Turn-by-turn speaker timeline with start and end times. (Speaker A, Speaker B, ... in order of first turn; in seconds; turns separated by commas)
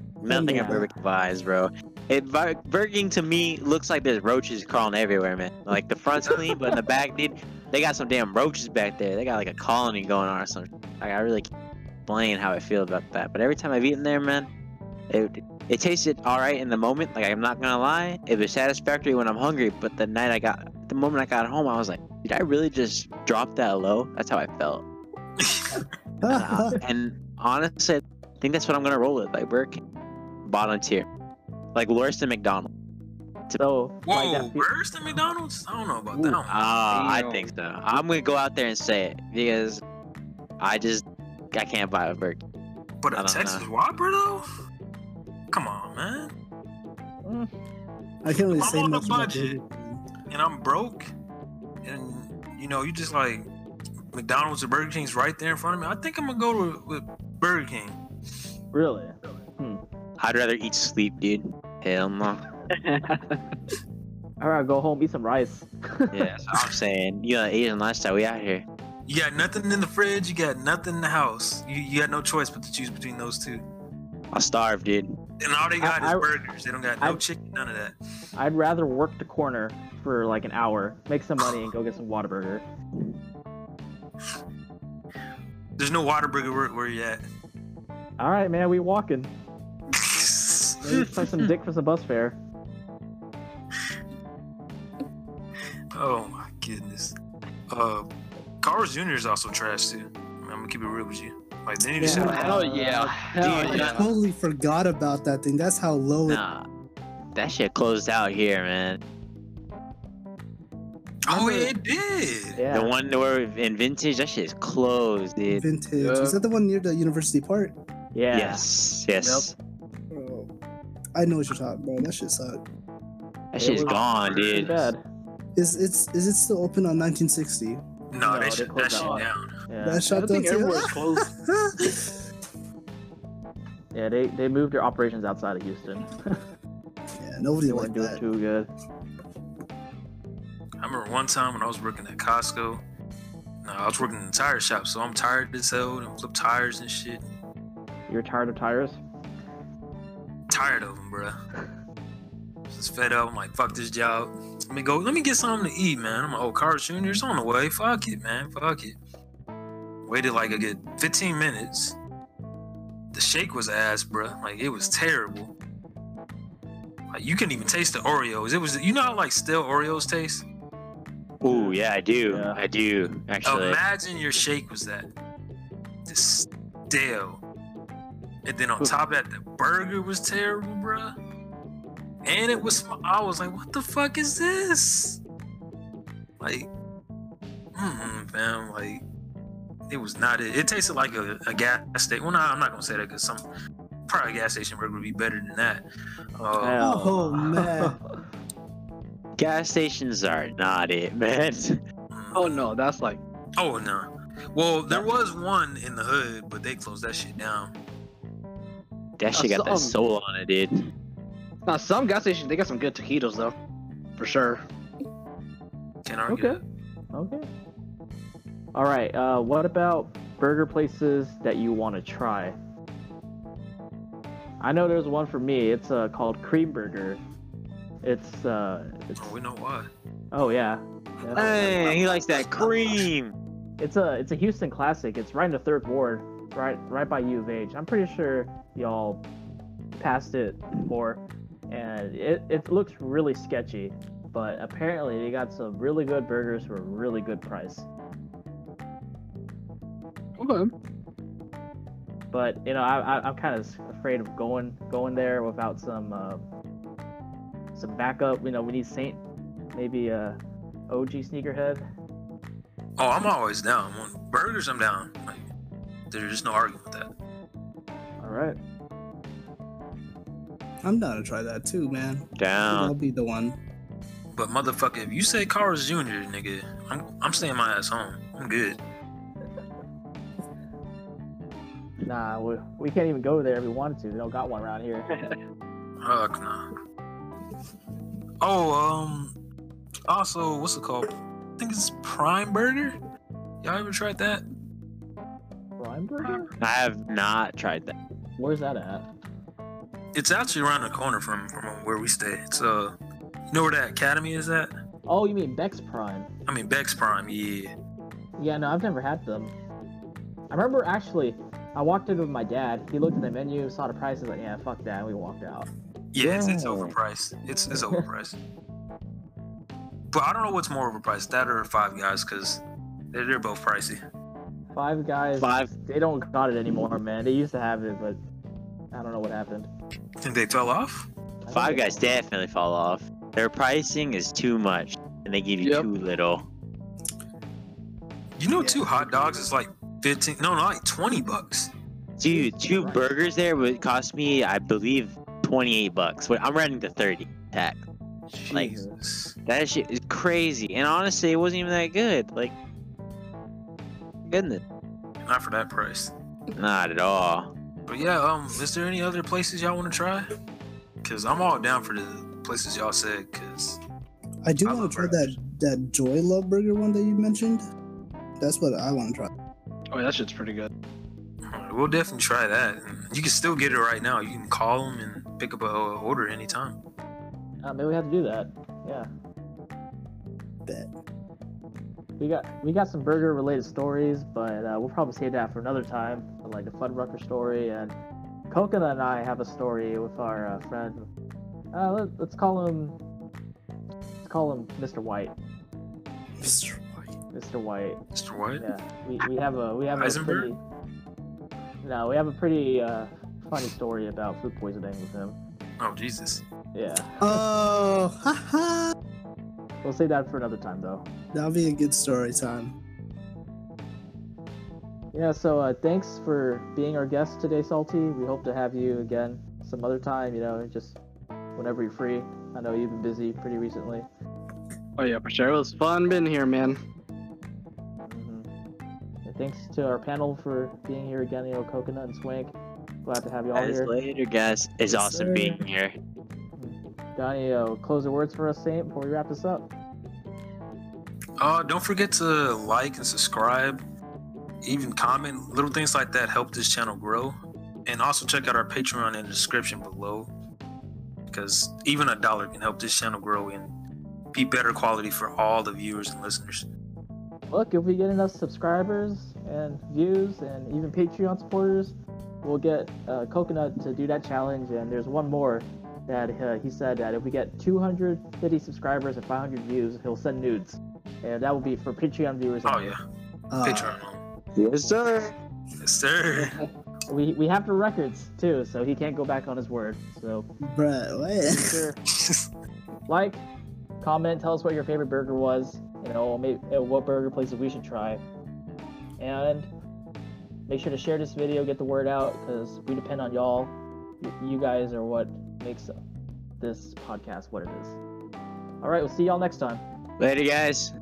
Speaker A: 0.2-11.5, Speaker B: 0.3-0.9, Speaker C: 0.4-0.8, Speaker D: 6.2-6.5, Speaker A: 12.1-14.5, Speaker A: 15.1-24.8, Speaker D: 25.4-25.9, Speaker B: 26.2-26.8, Speaker A: 26.3-29.8, Speaker A: 30.5-31.1, Speaker A: 31.8-32.7, Speaker C: 33.6-34.7, Speaker D: 34.1-36.6, Speaker A: 36.5-39.8, Speaker E: 36.9-37.4, Speaker A: 40.6-41.0, Speaker A: 41.5-42.4, Speaker D: 43.0-44.4, Speaker A: 43.1-43.6, Speaker D: 45.5-46.3, Speaker C: 47.2-47.5, Speaker B: 48.2-50.0, Speaker D: 48.3-49.6, Speaker D: 50.3-51.1, Speaker D: 51.8-53.5, Speaker D: 54.1-58.0, Speaker C: 58.7-59.8, Speaker A: 60.2-62.4, Speaker E: 62.7-63.4, Speaker C: 64.4-66.3, Speaker A: 66.1-68.6, Speaker D: 69.1-73.7, Speaker A: 74.3-75.1, Speaker D: 75.4-78.0, Speaker C: 75.8-76.3, Speaker C: 78.3-82.7, Speaker D: 85.8-87.2, Speaker C: 88.2-89.3, Speaker D: 89.9-90.8, Speaker C: 90.8-92.4, Speaker D: 95.9-97.2, Speaker D: 97.7-98.1, Speaker D: 98.6-102.7, Speaker E: 102.0-104.1, Speaker C: 102.0-103.2, Speaker A: 103.4-104.0, Speaker B: 103.9-106.4, Speaker A: 106.3-106.6, Speaker A: 107.3-109.0, Speaker D: 111.3-112.6, Speaker C: 111.3-111.7, Speaker C: 112.5-113.0, Speaker A: 112.7-115.7, Speaker B: 115.5-117.8, Speaker E: 116.0-116.4, Speaker C: 118.1-118.7, Speaker A: 118.3-119.5, Speaker E: 119.2-119.5, Speaker B: 120.1-120.5, Speaker B: 121.2-122.6, Speaker A: 123.5-124.9, Speaker C: 123.6-125.0, Speaker D: 124.3-124.7, Speaker B: 125.6-127.8, Speaker D: 128.1-129.5, Speaker C: 128.2-130.1, Speaker E: 129.0-129.2, Speaker B: 129.8-132.2, Speaker E: 130.1-131.3, Speaker C: 133.9-136.4, Speaker B: 137.2-138.2, Speaker C: 137.7-138.7, Speaker D: 140.8-142.8, Speaker D: 143.6-147.4, Speaker C: 148.1-149.0, Speaker D: 150.5-151.4, Speaker D: 152.7-159.0, Speaker D: 160.0-162.0, Speaker D: 163.1-165.5, Speaker D: 167.1-170.4, Speaker A: 171.4-173.8, Speaker C: 171.5-172.6, Speaker D: 173.4-175.1, Speaker D: 176.1-177.4, Speaker D: 178.4-181.2, Speaker D: 182.2-185.2, Speaker C: 182.3-182.8, Speaker D: 186.4-186.7, Speaker D: 187.8-189.0, Speaker D: 189.9-193.4, Speaker D: 194.1-195.8, Speaker C: 196.4-198.1, Speaker D: 196.4-196.8, Speaker B: 196.8-198.0, Speaker A: 199.4-201.8, Speaker D: 202.1-202.7, Speaker E: 202.3-203.2, Speaker D: 203.6-207.7, Speaker A: 209.2-210.7, Speaker E: 209.3-209.9, Speaker E: 211.7-213.6, Speaker E: 214.2-214.6, Speaker D: 216.1-216.6, Speaker C: 216.3-216.6, Speaker C: 217.1-217.5, Speaker C: 218.7-222.6, Speaker C: 224.6-227.2, Speaker C: 228.0-229.4, Speaker D: 229.2-229.9, Speaker C: 230.3-231.9, Speaker A: 231.4-233.3, Speaker E: 231.4-232.0, Speaker D: 232.4-232.6, Speaker C: 233.8-239.2, Speaker C: 239.9-247.9, Speaker E: 250.4-250.7, Speaker C: 252.3-256.4, Speaker C: 257.7-259.2, Speaker C: 259.7-260.4, Speaker C: 260.9-261.9, Speaker D: 263.0-265.5, Speaker D: 266.1-267.1, Speaker C: 268.2-268.6, Speaker B: 270.8-273.6, Speaker A: 272.4-272.9, Speaker D: 274.3-278.8, Speaker C: 282.1-285.1, Speaker D: 286.0-286.7, Speaker D: 288.4-289.3, Speaker D: 290.1-292.9, Speaker D: 293.6-294.4, Speaker C: 295.8-296.5, Speaker A: 296.6-297.9, Speaker C: 298.4-299.1, Speaker D: 300.1-302.9, Speaker D: 303.5-304.7, Speaker C: 305.1-306.3, Speaker D: 306.5-307.7, Speaker C: 308.4-309.5, Speaker C: 310.5-315.7, Speaker D: 316.1-318.4, Speaker A: 316.2-316.9, Speaker C: 317.7-318.1, Speaker D: 320.1-324.0, Speaker C: 324.7-328.2, Speaker A: 325.4-325.7, Speaker C: 328.9-329.7, Speaker D: 330.2-331.1, Speaker C: 331.4-332.1, Speaker A: 331.5-336.5, Speaker E: 335.6-335.9, Speaker D: 338.4-341.7, Speaker C: 338.6-339.4, Speaker A: 342.2-347.8, Speaker C: 342.2-343.2, Speaker D: 348.3-349.4, Speaker C: 348.5-349.0, Speaker A: 349.5-352.5, Speaker A: 354.3-354.6, Speaker D: 355.2-356.1, Speaker A: 356.6-357.5, Speaker D: 357.9-360.3, Speaker D: 361.0-363.8, Speaker B: 364.4-367.6, Speaker D: 364.6-365.4, Speaker B: 368.4-369.3, Speaker E: 369.9-370.7, Speaker D: 371.4-376.8, Speaker C: 377.6-379.1, Speaker B: 380.6-380.9, Speaker C: 382.2-388.0, Speaker C: 388.5-391.1, Speaker C: 391.7-393.0, Speaker C: 394.2-395.4, Speaker B: 396.4-397.2, Speaker C: 397.3-398.0, Speaker D: 398.1-398.7, Speaker C: 398.6-400.6, Speaker D: 400.0-400.5, Speaker C: 401.8-405.4, Speaker D: 405.8-406.4, Speaker C: 406.7-407.4, Speaker B: 407.2-408.9, Speaker C: 409.8-411.1, Speaker B: 411.3-412.8, Speaker C: 415.1-421.0, Speaker C: 421.6-424.1, Speaker E: 425.0-426.8, Speaker C: 428.1-428.5, Speaker C: 429.2-433.9, Speaker A: 433.6-435.9, Speaker B: 434.9-435.6, Speaker C: 436.6-439.7, Speaker D: 441.4-443.8, Speaker D: 444.6-450.3, Speaker D: 451.3-453.7, Speaker D: 454.3-456.7, Speaker C: 457.5-473.0, Speaker D: 472.6-473.0, Speaker B: 473.5-474.0, Speaker D: 473.6-474.2, Speaker A: 474.6-475.3, Speaker D: 475.8-476.6, Speaker C: 477.1-480.5, Speaker B: 480.6-481.8, Speaker C: 481.5-482.0, Speaker C: 483.1-483.4, Speaker C: 484.0-488.2, Speaker C: 489.2-489.7, Speaker C: 490.7-495.9, Speaker C: 496.6-498.0, Speaker C: 498.8-499.8, Speaker A: 500.2-500.9